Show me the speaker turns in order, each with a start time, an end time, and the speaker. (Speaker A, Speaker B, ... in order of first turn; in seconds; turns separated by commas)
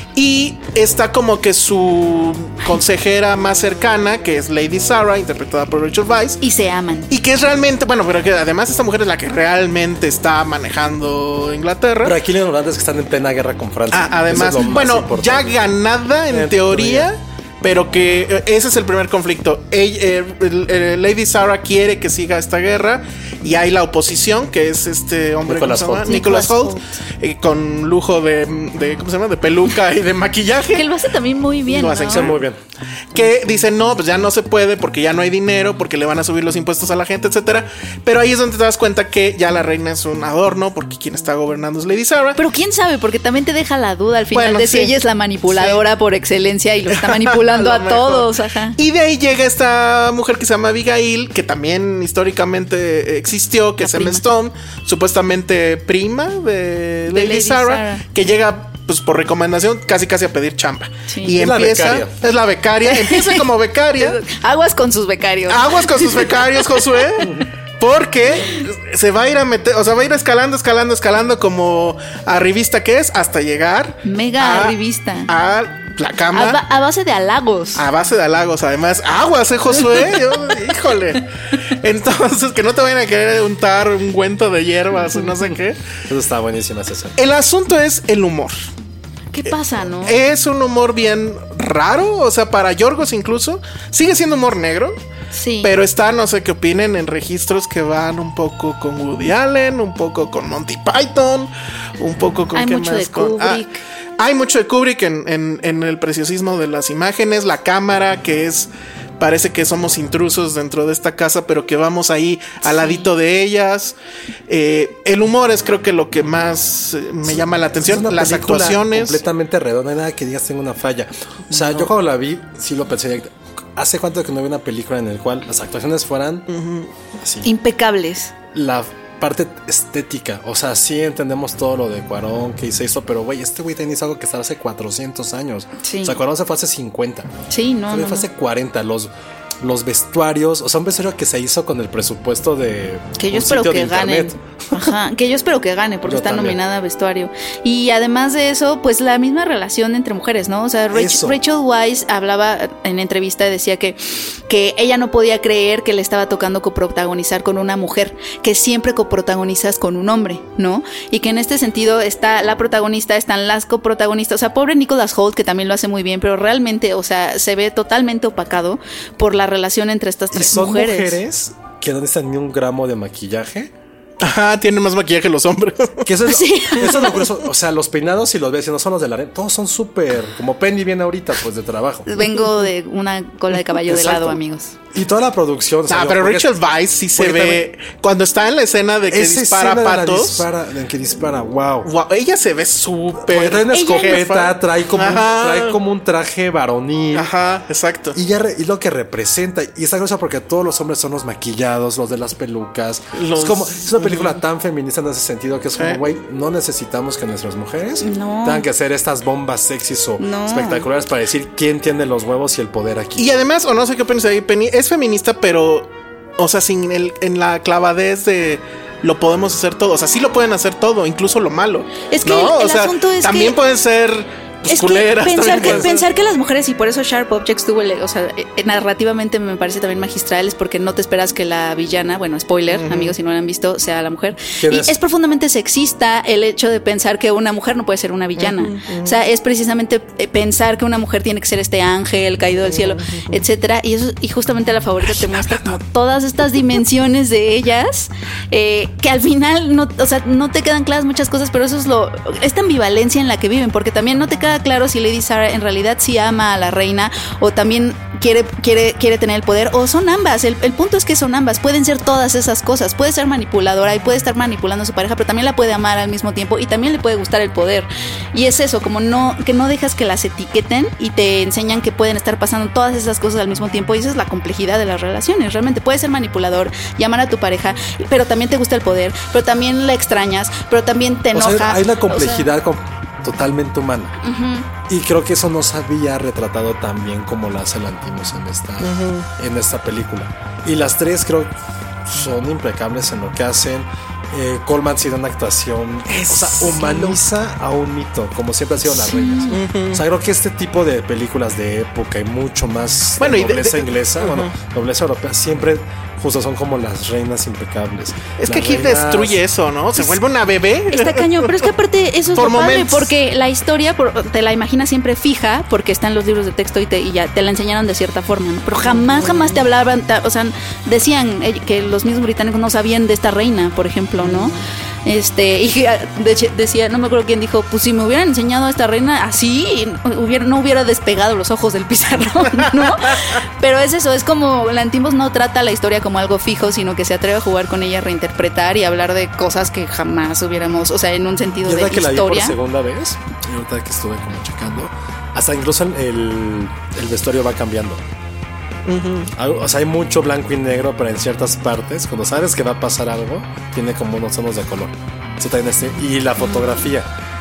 Speaker A: 0.1-6.4, Speaker B: 6.4-7.1, Speaker A: 7.1-12.2, Speaker C: 12.0-15.6, Speaker A: 13.9-30.9, Speaker C: 16.3-17.1, Speaker C: 25.5-26.3, Speaker B: 26.1-26.9, Speaker B: 30.8-32.4, Speaker A: 31.7-32.4, Speaker C: 32.1-32.6, Speaker A: 33.1-42.4, Speaker B: 42.4-48.8, Speaker A: 44.3-44.9, Speaker A: 45.5-45.8, Speaker A: 46.9-64.2, Speaker B: 53.8-54.2, Speaker B: 57.1-58.0, Speaker B: 61.1-61.4, Speaker C: 61.4-62.1, Speaker B: 62.9-67.2, Speaker A: 65.5-74.8, Speaker B: 74.0-75.3, Speaker A: 75.3-76.6, Speaker B: 76.3-77.8, Speaker A: 77.8-85.8, Speaker C: 86.1-87.2, Speaker A: 87.2-88.6, Speaker B: 89.3-90.2, Speaker A: 90.0-95.0, Speaker B: 95.3-95.7, Speaker A: 95.6-103.6, Speaker B: 102.5-103.8, Speaker A: 104.2-114.0, Speaker B: 112.7-113.1, Speaker A: 114.5-119.2, Speaker C: 117.3-126.5, Speaker A: 121.5-121.8, Speaker A: 126.5-126.9, Speaker C: 127.2-127.5, Speaker B: 127.4-128.3, Speaker C: 128.5-137.3, Speaker B: 135.8-136.2, Speaker B: 137.5-138.3, Speaker C: 137.9-144.9, Speaker B: 143.2-171.2, Speaker C: 146.1-146.6, Speaker C: 150.9-151.4, Speaker C: 170.3-173.7, Speaker A: 174.2-176.1, Speaker C: 176.1-182.1, Speaker B: 176.3-177.3, Speaker B: 182.1-184.7, Speaker C: 183.9-184.4, Speaker C: 184.9-186.5, Speaker A: 185.9-190.5, Speaker C: 187.2-187.6, Speaker C: 189.1-191.9, Speaker A: 191.8-195.8, Speaker C: 193.2-197.3, Speaker B: 193.7-194.2, Speaker A: 197.1-198.2, Speaker C: 198.2-213.3, Speaker A: 203.2-204.4, Speaker B: 208.0-208.7, Speaker B: 210.2-210.9, Speaker A: 213.2-226.0, Speaker B: 222.1-223.6, Speaker B: 224.7-282.5, Speaker C: 225.5-225.9, Speaker A: 232.7-233.2, Speaker C: 234.6-235.0, Speaker A: 238.4-239.1, Speaker C: 245.2-245.6, Speaker C: 281.3-284.1, Speaker B: 284.2-284.7, Speaker C: 284.9-291.5, Speaker A: 288.8-289.3, Speaker C: 292.1-309.4, Speaker A: 296.1-297.2, Speaker B: 299.1-299.6, Speaker A: 299.5-300.0, Speaker A: 303.2-304.5, Speaker A: 308.4-311.6, Speaker B: 310.9-342.6, Speaker A: 312.4-313.1, Speaker C: 341.6-348.0, Speaker A: 348.9-349.3, Speaker C: 349.4-357.1